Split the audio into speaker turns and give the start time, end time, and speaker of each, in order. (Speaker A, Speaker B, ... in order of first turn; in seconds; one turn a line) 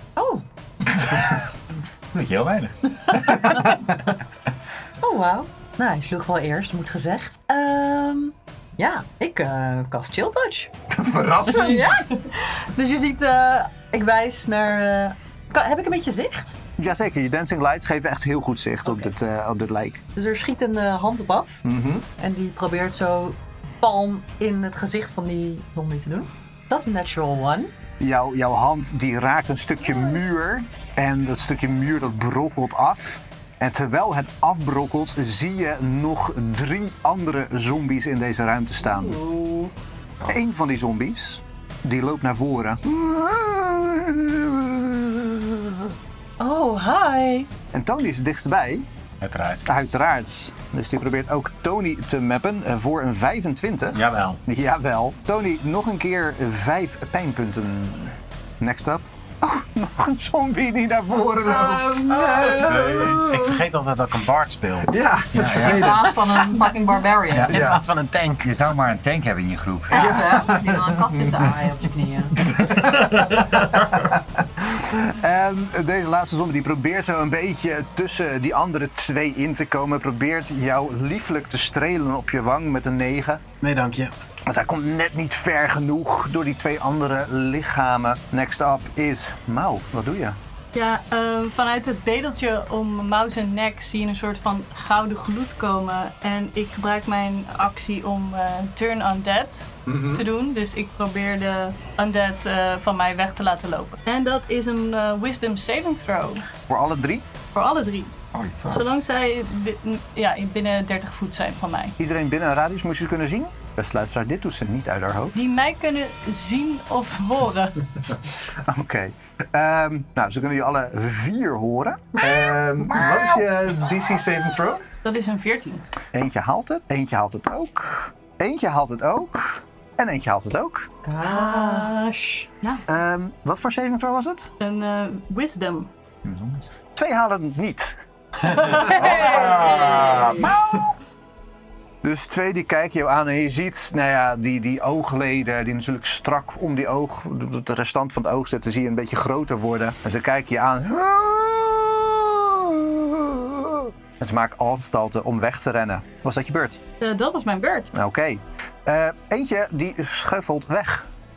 Speaker A: 0.1-0.4
Speaker B: 2.1-3.6
Speaker A: 3.1-3.7
Speaker A: 5.0-10.7
Speaker C: 10.9-12.0
Speaker A: 11.4-16.6
Speaker C: 16.8-20.0
Speaker A: 20.1-21.6
Speaker C: 21.6-22.1
Speaker A: 22.2-27.7
Speaker C: 28.0-39.2
Speaker A: 38.8-39.7
Speaker C: 40.2-45.9
Speaker A: 46.4-47.5
Speaker C: 47.7-48.9
Speaker D: 49.2-49.7
Speaker C: 49.6-63.5
Speaker D: 53.9-54.4
Speaker A: 61.4-63.2
Speaker B: 62.4-63.4
Speaker D: 63.3-65.7
Speaker C: 64.8-66.7
Speaker B: 65.3-66.0
Speaker A: 65.4-67.5
Speaker B: 67.3-67.7
Speaker D: 67.5-68.5
Speaker C: 67.5-67.8
Speaker B: 68.4-70.2
Speaker C: 69.9-71.5
Speaker A: 69.9-72.4
Speaker C: 72.4-83.4
Speaker B: 72.7-74.0
Speaker D: 83.6-84.1
Speaker C: 84.5-90.4
Speaker E: 90.7-106.5
Speaker C: 99.9-100.2
Speaker C: 106.7-107.3
Speaker E: 107.5-108.1
Speaker B: 108.3-108.8
Speaker E: 108.7-112.0
Speaker C: 112.0-115.4
Speaker E: 115.3-117.8
Speaker C: 118.5-124.9
Speaker A: 122.8-123.4
Speaker E: 125.0-125.8
Speaker C: 126.1-130.9
Speaker A: 131.0-132.5
Speaker E: 131.2-131.9
Speaker C: 132.9-134.5
Speaker E: 134.6-135.9
Speaker B: 136.2-136.7
Speaker C: 136.9-140.4
Speaker E: 138.5-140.3
Speaker A: 138.8-140.2
Speaker B: 138.8-140.9
Speaker C: 142.0-156.8
Speaker E: 157.0-157.9
Speaker C: 157.9-161.1